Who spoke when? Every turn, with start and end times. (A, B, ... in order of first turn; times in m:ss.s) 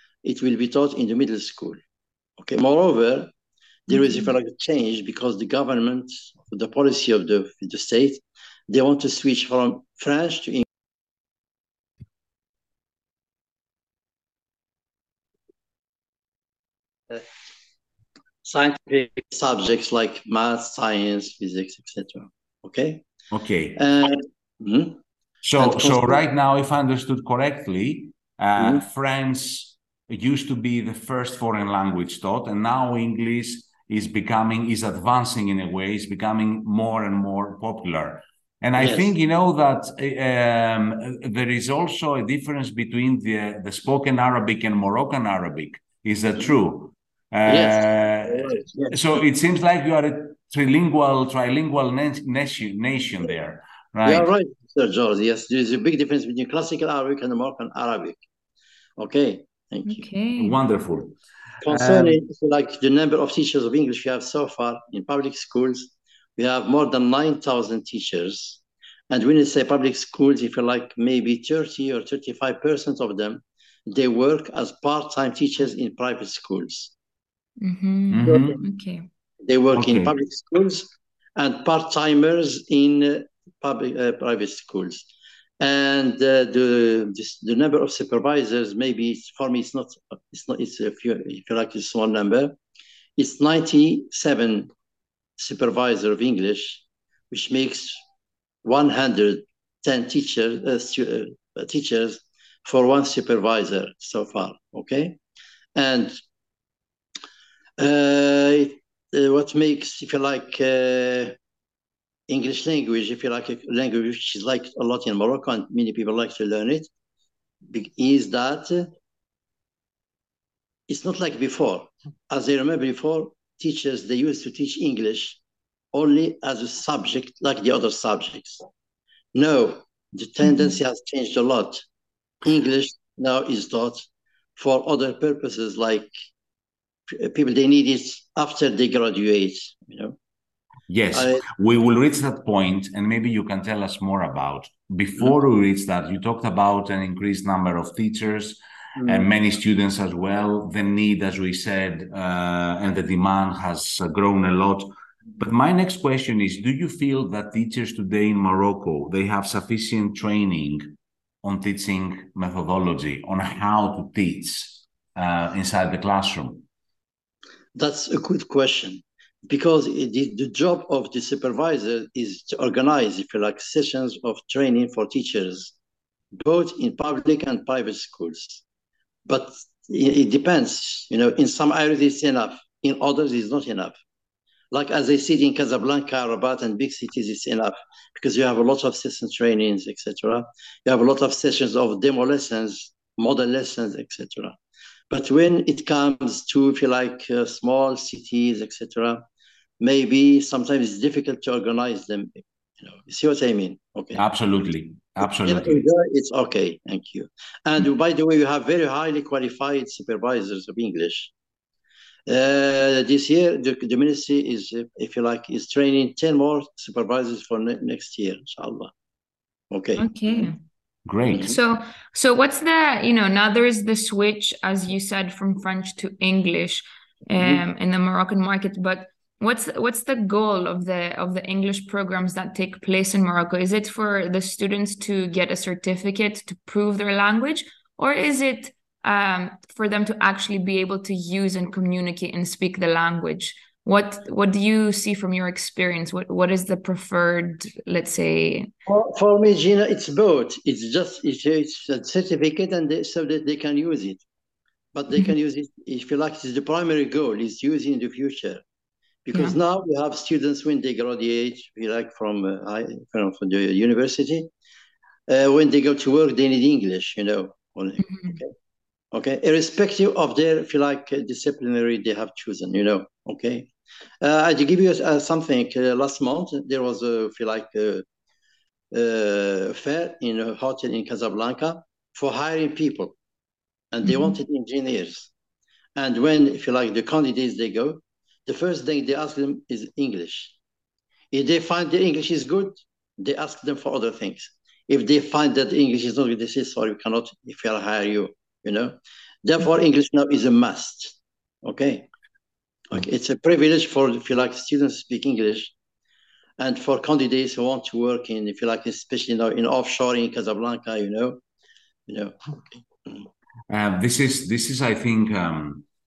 0:00.2-0:01.8 A
0:02.4-0:03.3 A
0:03.9-0:10.6 A
0:03.9-0:04.3 B
0:18.4-0:23.0 A
0:23.3-0:23.8 C
0:23.8-0:25.0 A
0:25.4-0:54.3 C
0:25.6-0:26.2 A
0:28.6-0:28.8 A
0:38.8-0:39.1 A
0:47.5-0:49.0 A
0:54.0-0:58.2 A
0:59.0-1:00.1 A
0:59.8-1:00.6 B
1:00.4-1:02.2 C
1:01.6-1:16.9 A
1:17.6-1:19.1 B
1:18.1-1:18.6 C
1:18.2-1:18.6 A
1:19.4-1:25.1 A
1:19.7-1:20.1 C
1:25.6-1:32.6 A
1:33.2-1:34.7 A
1:35.4-1:38.0 A
1:38.6-1:45.2 A
1:45.7-1:46.2 A
1:47.8-1:51.3 A
1:52.3-1:56.9 A
1:57.7-1:58.9 A
2:00.9-2:05.4 A
2:05.9-2:08.6 A
2:09.3-2:11.8 A
2:10.4-2:10.7 B
2:12.4-2:16.1 A
2:17.1-2:20.2 A
2:20.9-2:40.8 C
2:21.1-2:21.4 A
2:29.0-2:29.3 A
2:41.4-2:46.6 C
2:47.7-2:55.7 A
2:56.4-2:58.6 A
2:59.3-3:04.0 A
3:04.7-3:14.6 A
3:15.1-3:19.2 A
3:19.8-3:24.2 A
3:24.1-3:25.8 C
3:25.2-3:31.3 A
3:32.3-3:38.9 A
3:39.7-3:40.5 A
3:40.0-3:40.6 B
3:41.0-3:41.5 C
3:41.3-3:41.6 A
3:41.4-4:08.7 B
3:47.4-3:47.6 A
4:08.9-4:14.2 A
4:14.9-4:18.6 A
4:19.2-4:24.5 A
4:25.3-4:28.5 A
4:28.0-4:28.4 B
4:29.1-4:33.7 A
4:34.2-4:38.0 A
4:38.9-4:43.1 A
4:43.9-4:45.3 A
4:44.0-4:44.4 B
4:45.9-4:50.6 A
4:51.3-5:02.1 A
5:02.9-5:05.7 A
5:06.6-5:11.4 A
5:12.1-5:13.3 A
5:13.7-5:15.8 C